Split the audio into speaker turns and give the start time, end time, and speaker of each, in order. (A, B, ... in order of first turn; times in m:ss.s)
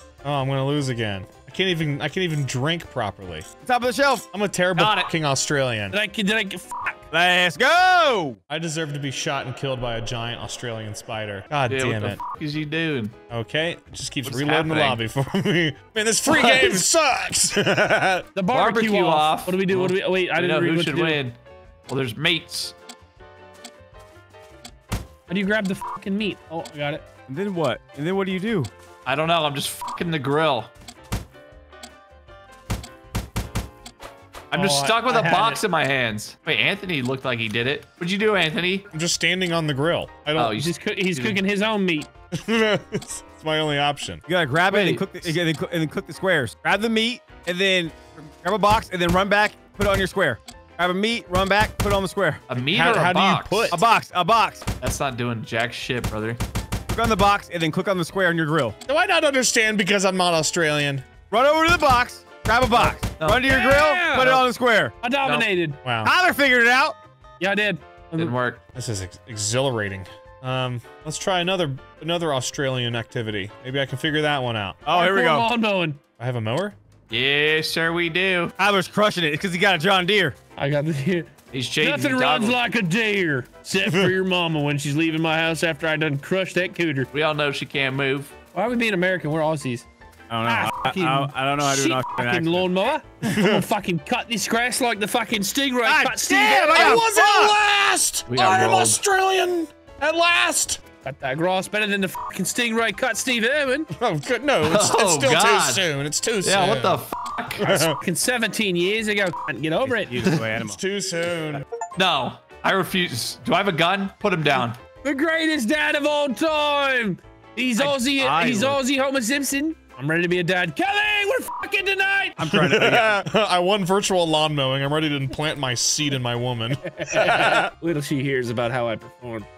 0:00.2-0:03.4 A
0:03.6-0:04.2 B
0:04.3-0:06.0 A
0:04.8-0:05.1 C
0:05.9-0:07.0 D
0:07.1-0:08.4 B
0:08.5-0:12.2 A
0:11.7-0:13.1 C
0:13.3-0:18.3 A
0:14.2-0:15.0 C
0:16.2-0:16.9 D
0:18.3-0:21.2 D
0:18.5-0:21.4 C
0:21.9-0:22.7 C
0:25.3-0:27.0 D
0:27.3-0:28.7 B
0:29.0-0:30.7 C
0:34.5-0:35.6 D
0:34.5-0:38.8 C
0:38.9-0:40.6 A
0:40.3-0:41.4 C
0:40.5-0:42.1 D
0:42.3-0:44.2 A
0:44.3-0:52.4 B
0:44.7-0:45.3 D
0:52.5-0:53.8 C
0:52.6-0:53.8 A
0:53.7-0:54.6 B
0:54.8-0:56.4 C
0:56.9-0:58.8 B
0:58.9-1:01.0 A
1:01.3-1:04.9 B
1:02.8-1:03.4 C
1:03.4-1:04.5 D
1:05.0-1:05.8 D
1:05.8-1:06.1 A
1:06.0-1:07.0 B
1:07.4-1:08.4 D
1:08.2-1:08.6 C
1:08.7-1:14.8 A
1:14.8-1:15.5 B
1:14.9-1:16.0 D
1:16.2-1:16.8 A
1:17.1-1:18.5 C
1:18.6-1:20.4 B
1:20.6-1:27.1 D
1:21.5-1:22.6 C
1:27.1-1:28.3 C
1:28.5-1:29.8 D
1:30.3-1:32.7 B
1:30.4-1:37.0 D
1:33.2-1:33.6 A
1:35.8-1:37.6 B
1:36.7-1:40.8 A
1:38.3-1:39.0 C
1:41.0-1:43.9 D
1:43.9-1:47.0 A
1:44.6-1:45.8 C
1:46.4-1:47.9 C
1:47.6-1:48.0 A
1:48.0-1:50.2 D
1:49.8-1:50.8 B
1:50.6-1:51.6 A
1:52.0-1:54.8 C
1:55.0-2:02.4 D
1:57.8-1:58.8 B
2:02.4-2:03.2 B
2:02.5-2:07.7 A
2:06.8-2:09.5 D